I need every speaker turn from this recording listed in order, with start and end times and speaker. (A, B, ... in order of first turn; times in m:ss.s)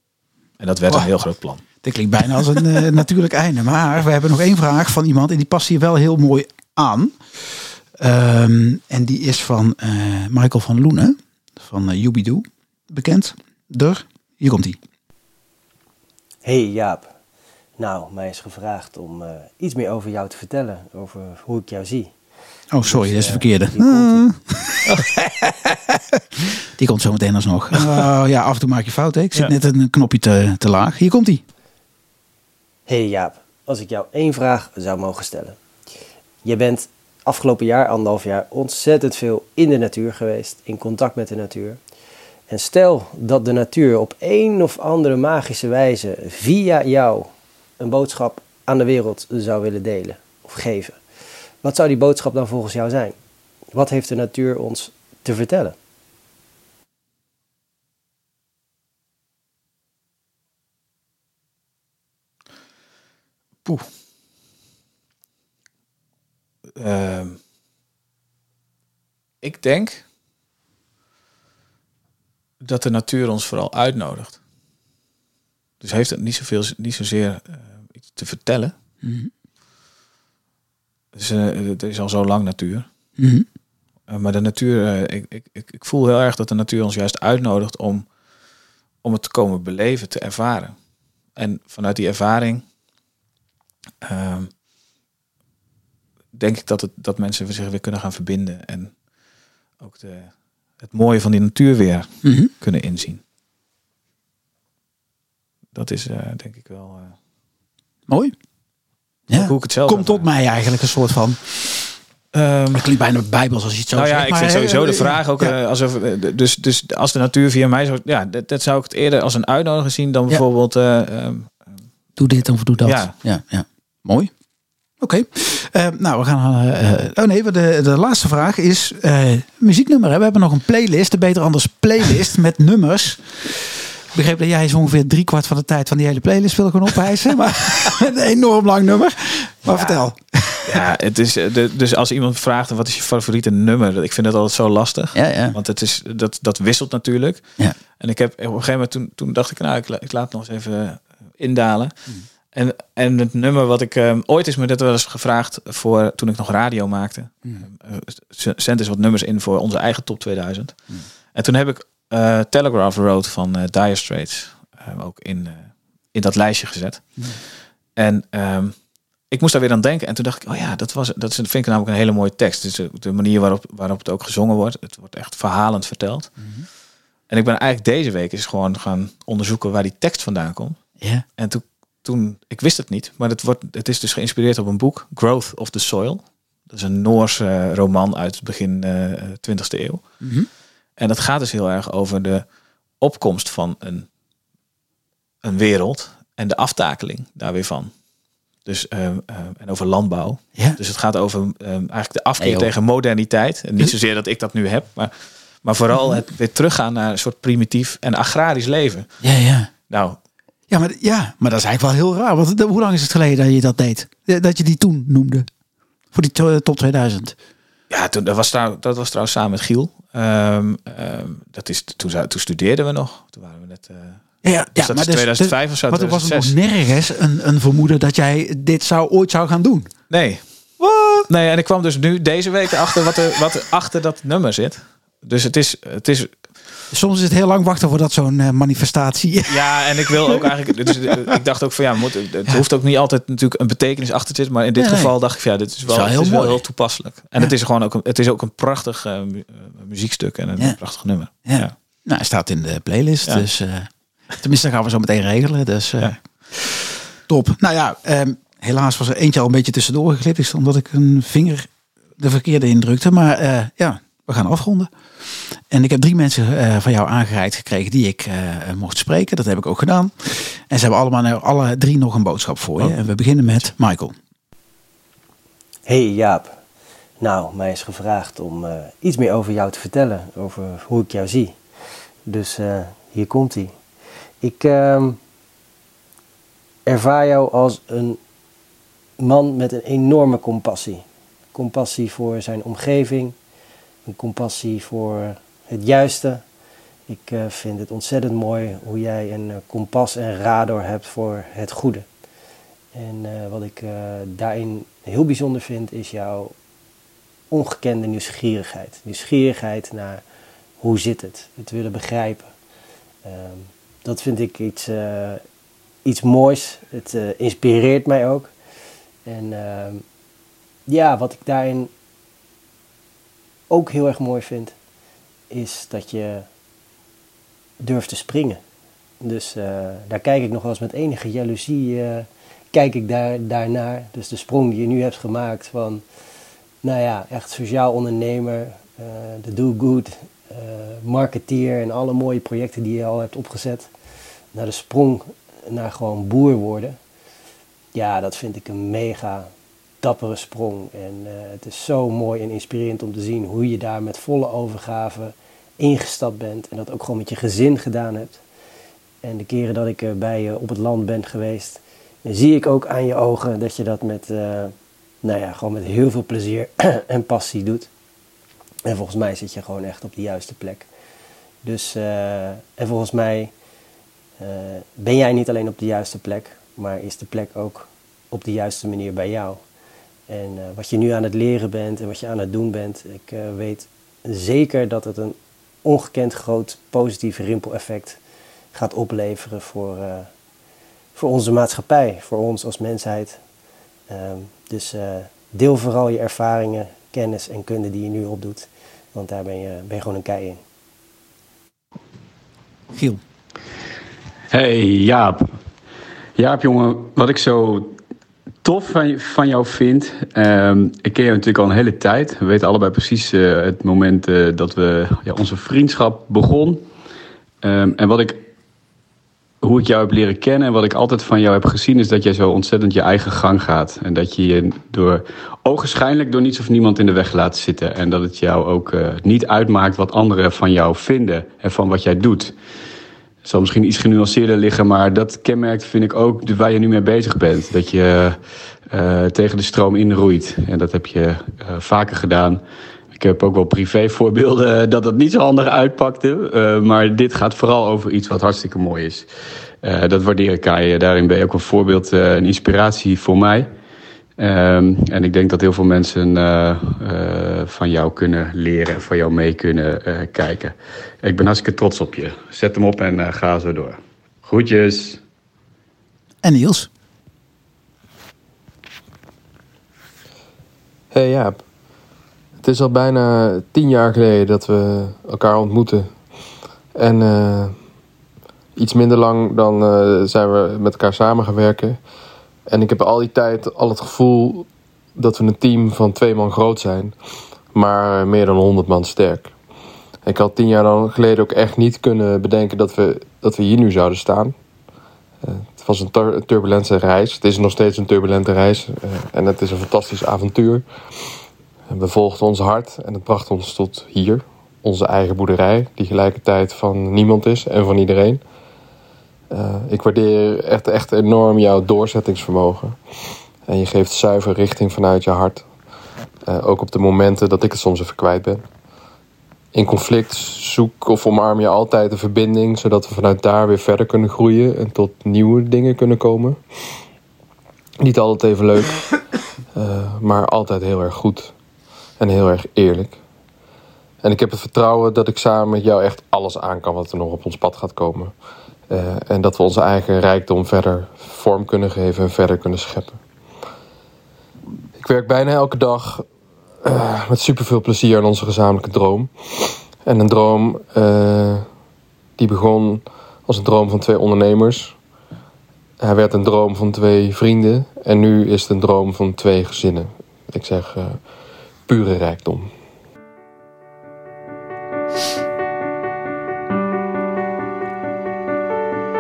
0:00.6-0:01.6 A
0:01.8-0:14.8 B
0:16.4-0:17.1 C
0:17.8-0:22.2 C
0:22.7-0:26.2 B
0:22.8-0:24.3 C
0:26.8-0:31.4 B
0:32.9-0:35.6 C
0:36.4-0:41.8 C
0:42.5-0:51.0 C
0:51.6-0:53.2 C
0:53.7-0:55.8 C
1:06.8-1:07.4 A
1:09.4-1:10.0 A
1:12.6-1:14.4 A
1:15.8-1:18.8 A
1:19.0-1:19.3 B
1:21.1-1:22.9 A
1:23.2-1:23.4 B
1:24.1-1:28.1 A
1:29.0-1:30.8 A
1:31.4-1:32.6 A
1:34.0-1:34.5 A
1:36.3-1:39.0 A
1:39.8-1:43.2 A
1:42.2-1:42.5 B
1:45.8-1:47.2 A
1:48.1-1:48.3 B
1:49.3-1:52.0 B
1:49.3-1:50.3 A
1:52.3-1:52.9 A
1:52.7-1:55.5 B
1:53.9-2:01.7 A
2:02.2-2:04.3 B
2:02.8-2:03.1 A
2:05.0-2:20.7 B
2:19.7-2:20.0 A
2:20.7-2:48.8 A
2:25.1-2:25.6 B
2:49.3-2:56.4 A
2:56.4-2:56.7 B
2:57.3-3:10.2 A
3:01.0-3:01.2 B
3:10.2-3:10.5 B
3:11.0-3:12.5 A
3:13.0-3:14.1 A
3:15.4-3:17.9 A
3:18.6-3:29.1 A
3:22.4-3:22.7 B
3:29.2-3:29.7 B
3:29.9-3:30.2 A
3:30.7-3:35.5 B
3:36.1-3:37.4 B
3:37.9-3:46.6 A
3:44.4-3:49.9 B
3:50.1-3:56.5 A
3:50.8-3:51.3 B
3:56.9-4:01.4 B
3:59.5-4:11.7 A
4:04.8-4:05.1 B
4:05.9-4:06.6 B
4:11.4-4:34.2 B
4:35.9-4:36.6 C
4:37.2-4:41.6 C
4:42.3-4:43.7 C
4:44.4-4:45.2 C
4:46.9-4:48.2 C
4:49.2-4:53.4 C
4:54.0-4:56.4 C
4:57.1-5:02.0 C
5:02.9-5:06.5 C
5:07.5-5:10.2 C
5:10.8-5:12.5 C
5:13.2-5:15.4 C
5:16.0-5:18.5 C
5:19.2-5:20.0 C
5:20.9-5:21.9 C
5:23.7-5:24.8 C
5:25.5-5:26.5 C
5:27.8-5:28.6 C
5:29.2-5:36.0 C
5:36.8-5:43.9 C
5:44.5-5:47.0 C
5:47.9-5:49.5 C
5:50.0-5:58.4 C
5:59.2-6:07.9 C
6:08.8-6:10.9 C
6:11.6-6:13.5 C
6:14.4-6:19.6 C
6:20.3-6:28.2 C
6:28.7-6:30.3 C
6:31.2-6:33.4 C
6:34.1-6:40.6 C
6:42.9-6:43.2 B
6:44.5-6:45.5 D
6:46.4-6:48.0 D
6:48.6-6:56.8 D
6:57.6-6:58.4 D
6:59.6-7:12.5 D
7:13.4-7:18.4 D
7:18.9-7:22.6 D
7:23.1-7:29.3 D
7:29.8-7:33.7 D
7:34.4-7:45.2 D
7:46.4-7:46.9 B
7:51.1-7:51.6 E
7:52.6-7:56.2 E
7:57.0-7:57.8 E
7:58.8-8:02.0 E
8:02.7-8:07.2 E
8:07.7-8:09.5 E
8:10.3-8:14.6 E
8:15.4-8:20.8 E
8:21.9-8:28.4 E
8:29.5-8:35.7 E
8:36.5-8:38.6 E
8:39.7-8:46.6 E
8:48.0-8:49.1 E
8:49.7-8:51.5 E
8:52.2-8:53.2 E
8:54.2-8:58.3 E
8:58.9-9:03.2 E
9:05.0-9:06.3 E
9:06.8-9:11.7 E
9:12.4-9:15.0 E
9:16.0-9:21.2 E
9:21.9-9:22.7 E